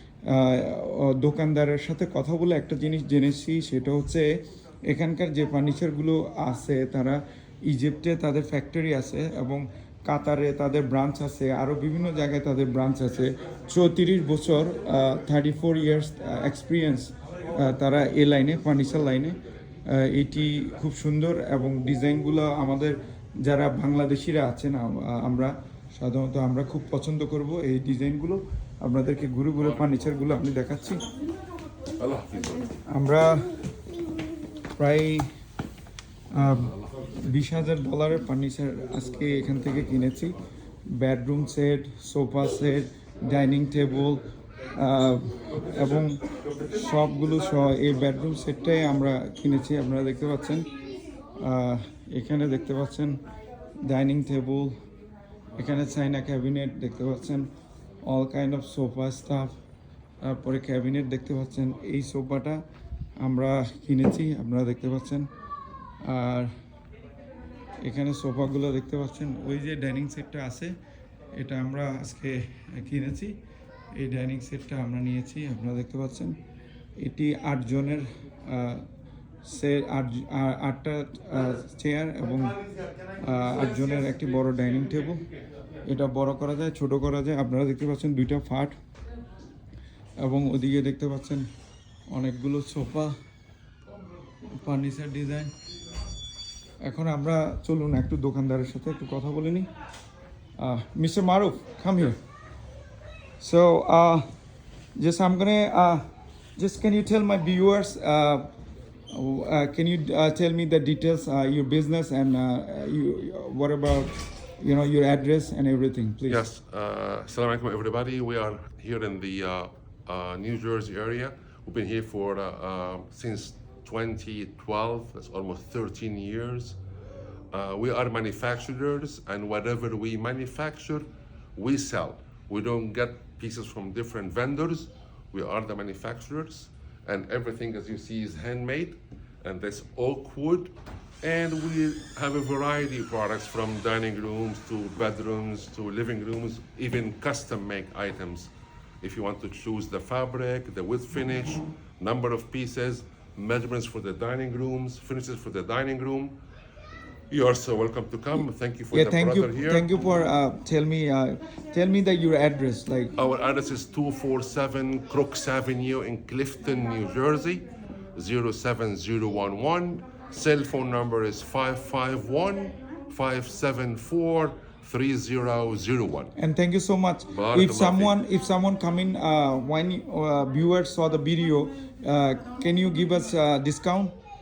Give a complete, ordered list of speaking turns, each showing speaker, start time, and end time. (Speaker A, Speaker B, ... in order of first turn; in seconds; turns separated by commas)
Speaker A: 0.3-4.3, Speaker A: 4.9-31.0, Speaker B: 32.0-32.7, Speaker A: 32.9-33.4, Speaker A: 34.8-35.2, Speaker A: 36.3-40.3, Speaker A: 40.9-44.2, Speaker A: 44.8-46.2, Speaker A: 46.7-50.7, Speaker A: 51.4-53.2, Speaker A: 53.8-54.7, Speaker A: 55.6-57.5, Speaker A: 58.0-59.5, Speaker A: 60.2-62.6, Speaker A: 63.2-65.3, Speaker A: 66.0-66.5, Speaker A: 67.8-70.8, Speaker A: 71.3-73.4, Speaker A: 73.9-76.4, Speaker A: 77.0-78.8, Speaker A: 79.4-82.5, Speaker A: 83.2-85.2, Speaker A: 85.8-88.7, Speaker A: 90.2-91.5, Speaker A: 92.1-93.1, Speaker A: 94.5-95.5, Speaker A: 96.8-99.7, Speaker A: 100.6-102.2, Speaker A: 103.4-104.2, Speaker A: 105.0-106.0, Speaker A: 106.6-108.5, Speaker A: 109.1-116.4, Speaker B: 116.3-126.8, Speaker B: 127.5-156.3, Speaker B: 157.3-159.8, Speaker A: 158.9-163.1, Speaker B: 163.2-176.3, Speaker A: 176.4-184.1, Speaker B: 177.3-178.2